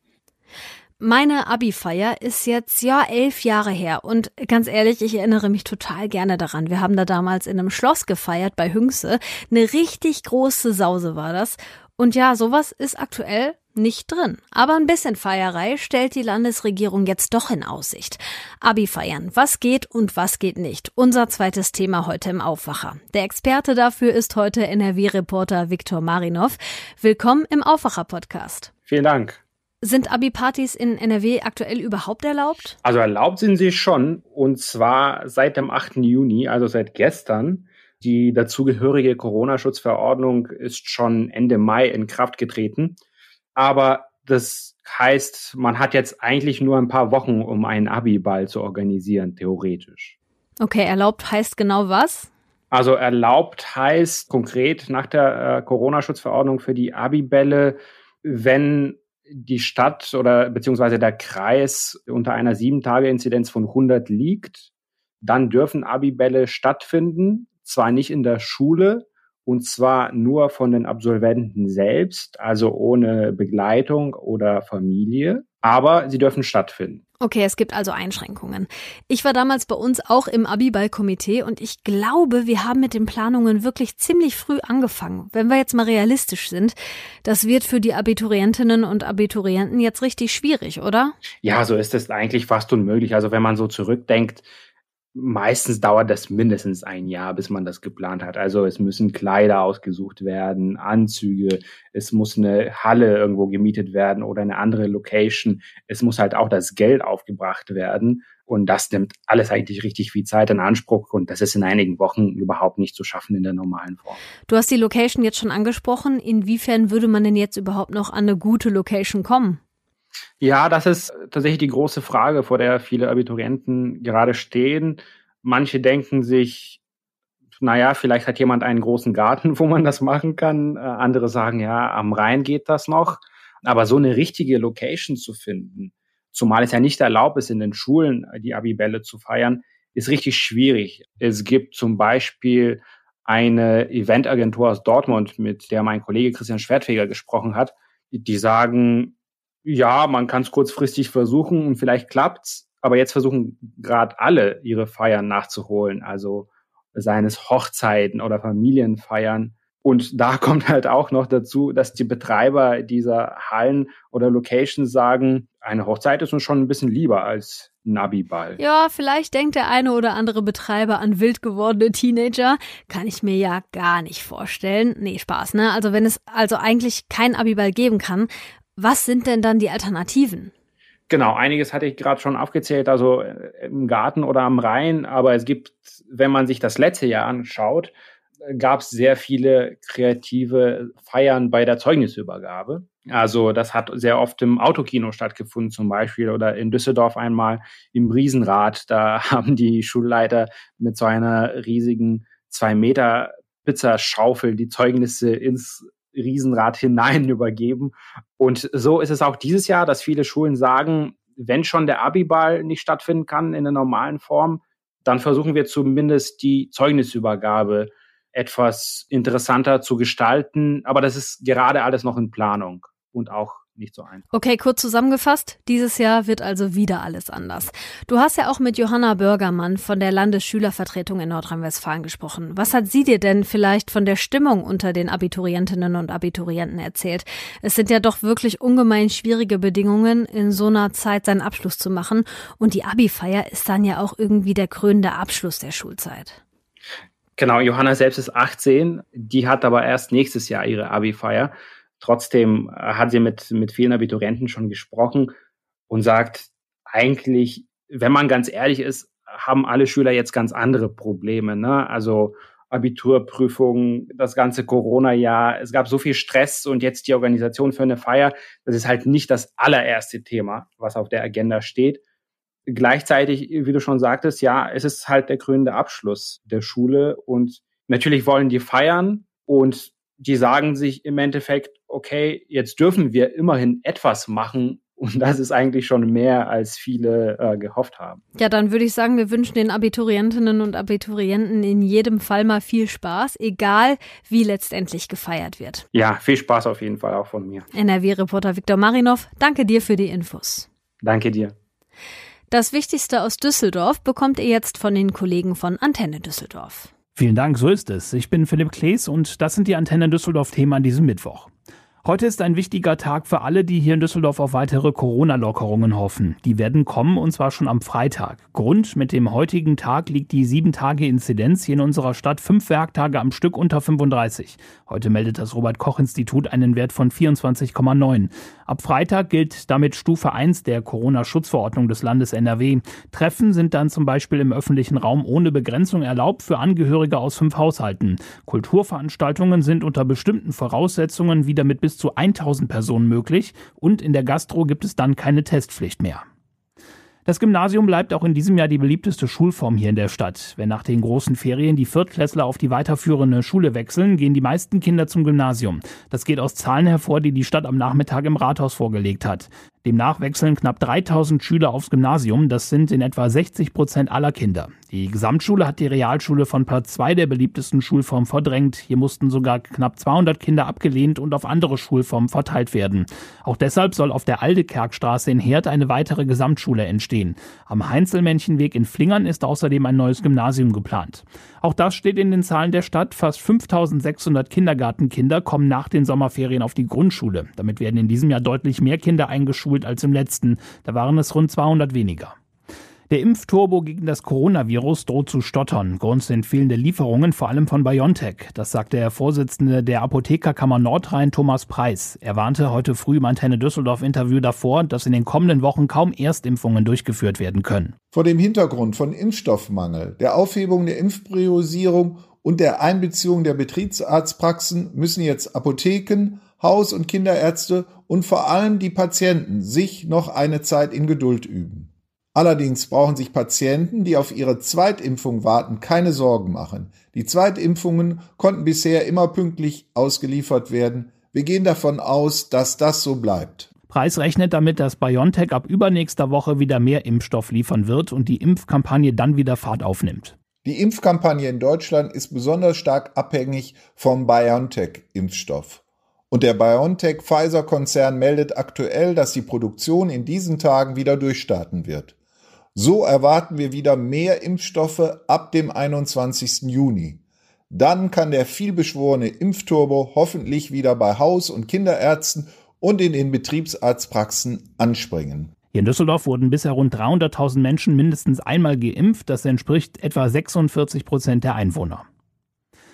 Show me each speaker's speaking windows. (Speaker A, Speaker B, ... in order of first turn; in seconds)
Speaker A: 1.0-28.7, 29.8-32.8, 50.6-52.3, 77.2-91.2, 114.5-119.6, 168.6-180.5, 224.3-246.4, 288.4-295.9, 297.7-300.7, 302.5-306.9
Speaker B: 28.9-29.4, 32.9-43.0, 43.6-50.1, 52.7-64.7, 65.2-77.0, 91.4-94.5, 95.2-114.2, 120.4-126.8, 127.6-149.1, 149.7-168.6, 181.1-187.9, 188.5-224.2, 247.4-255.3, 255.9-272.0, 272.7-288.2, 295.9-297.6, 301.0-301.5
Speaker C: 307.1-311.5, 312.0-346.2, 347.3-392.4, 393.1-407.9, 433.9-440.4, 465.7-472.0
Speaker D: 408.1-433.7, 440.6-452.1, 452.8-465.5